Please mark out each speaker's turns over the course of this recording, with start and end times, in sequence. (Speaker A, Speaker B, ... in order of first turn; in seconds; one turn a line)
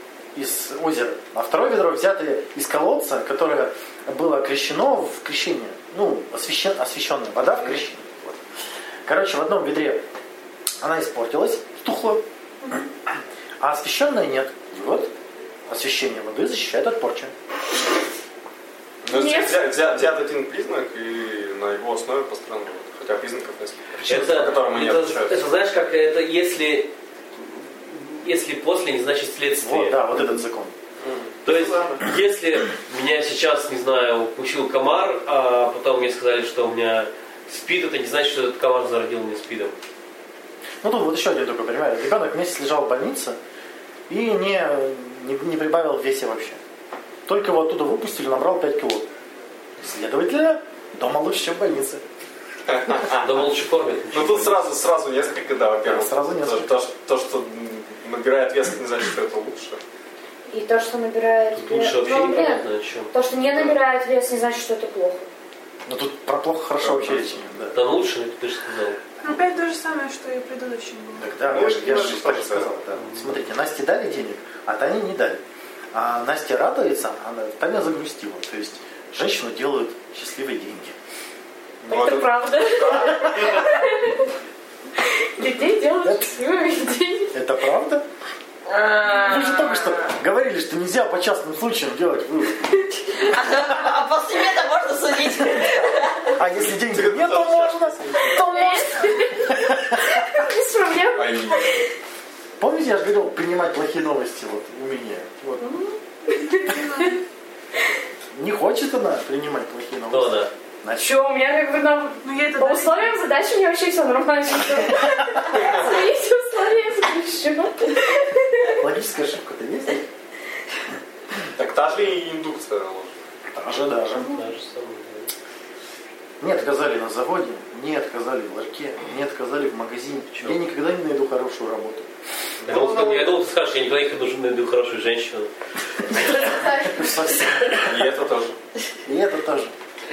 Speaker A: 0.3-8.4
Speaker A: 9.1-10.0
Speaker A: 10.8-12.2
Speaker A: 13.6-15.1
Speaker A: 15.7-17.3
Speaker B: 19.0-25.4
Speaker C: 19.1-19.6
Speaker D: 24.0-30.0
Speaker A: 29.6-30.7
Speaker B: 31.0-32.1
Speaker D: 31.4-39.8
Speaker A: 40.8-43.4
Speaker A: 44.1-46.6
Speaker A: 47.3-49.1
Speaker A: 49.8-52.0
Speaker B: 52.7-53.4
Speaker D: 53.0-54.6
Speaker B: 54.1-59.8
Speaker A: 55.8-56.8
Speaker C: 60.5-65.3
Speaker D: 61.5-63.1
Speaker A: 65.8-67.8
Speaker B: 66.8-67.5
Speaker D: 67.7-69.2
Speaker E: 69.2-71.3
Speaker A: 71.2-75.4
Speaker B: 71.4-72.7
Speaker D: 73.0-73.4
Speaker A: 75.9-80.9
Speaker B: 81.8-83.7
Speaker C: 81.9-84.3
Speaker C: 85.0-87.3
Speaker A: 86.0-86.3
Speaker A: 87.3-88.0
Speaker F: 88.6-90.1
Speaker A: 89.1-92.8
Speaker F: 93.1-96.4
Speaker A: 96.3-100.2
Speaker B: 96.7-98.5
Speaker C: 98.3-101.9
Speaker B: 101.1-101.8
Speaker A: 102.6-105.7
Speaker C: 105.6-107.2
Speaker E: 106.6-107.2
Speaker A: 108.3-111.1
Speaker D: 110.1-110.5
Speaker C: 111.0-118.7
Speaker E: 112.2-113.2
Speaker B: 115.5-116.0
Speaker A: 118.8-120.0
Speaker B: 121.6-123.2
Speaker A: 123.5-124.4
Speaker D: 124.3-125.3
Speaker A: 126.4-132.1
Speaker D: 130.3-130.6
Speaker B: 132.6-133.0
Speaker D: 132.7-135.5
Speaker F: 132.7-133.3
Speaker A: 136.1-138.0
Speaker C: 136.4-136.7
Speaker B: 137.8-138.6
Speaker A: 139.1-139.7